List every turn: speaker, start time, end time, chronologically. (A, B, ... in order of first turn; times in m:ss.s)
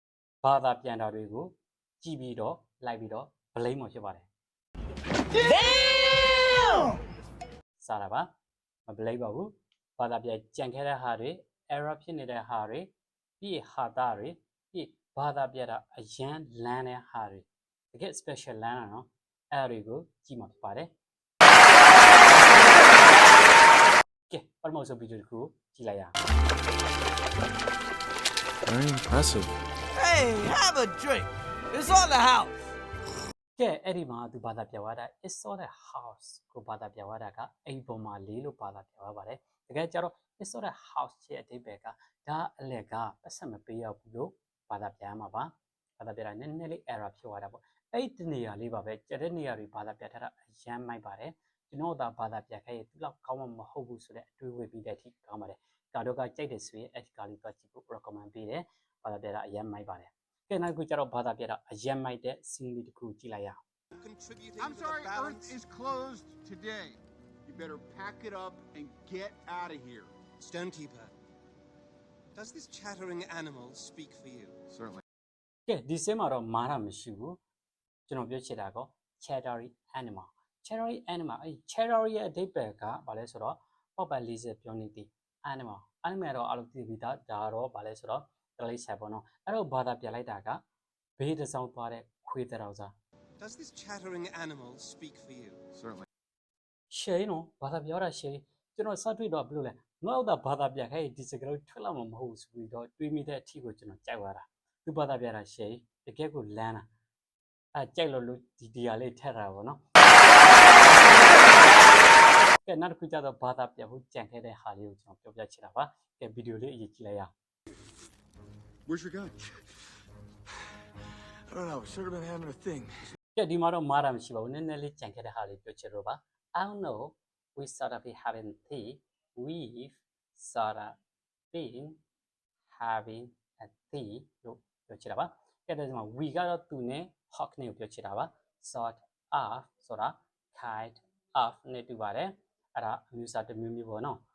0:00.4-0:04.3 A
0:05.5-0:06.8 B
0:07.8-0:08.3 A
0:08.8-0:20.9 A
0:24.3-0:26.1 A
0:28.6-0:30.6 C
0:30.0-0:32.5 B
0:33.6-1:03.6 A
1:03.9-1:05.6 D
1:04.6-1:10.1 E
1:10.4-1:11.1 D
1:12.3-1:14.6 D
1:15.7-1:17.4 A
1:18.1-1:30.6 A
1:31.2-1:32.9 A
1:33.4-1:35.6 D
1:36.9-1:46.9 A
1:47.7-1:49.8 A
1:52.6-1:57.3 A
1:58.9-1:59.3 C
1:58.9-1:59.4 E
2:01.5-2:02.9 C
2:03.4-2:11.0 A
2:11.5-2:12.0 A
2:12.7-2:24.2 A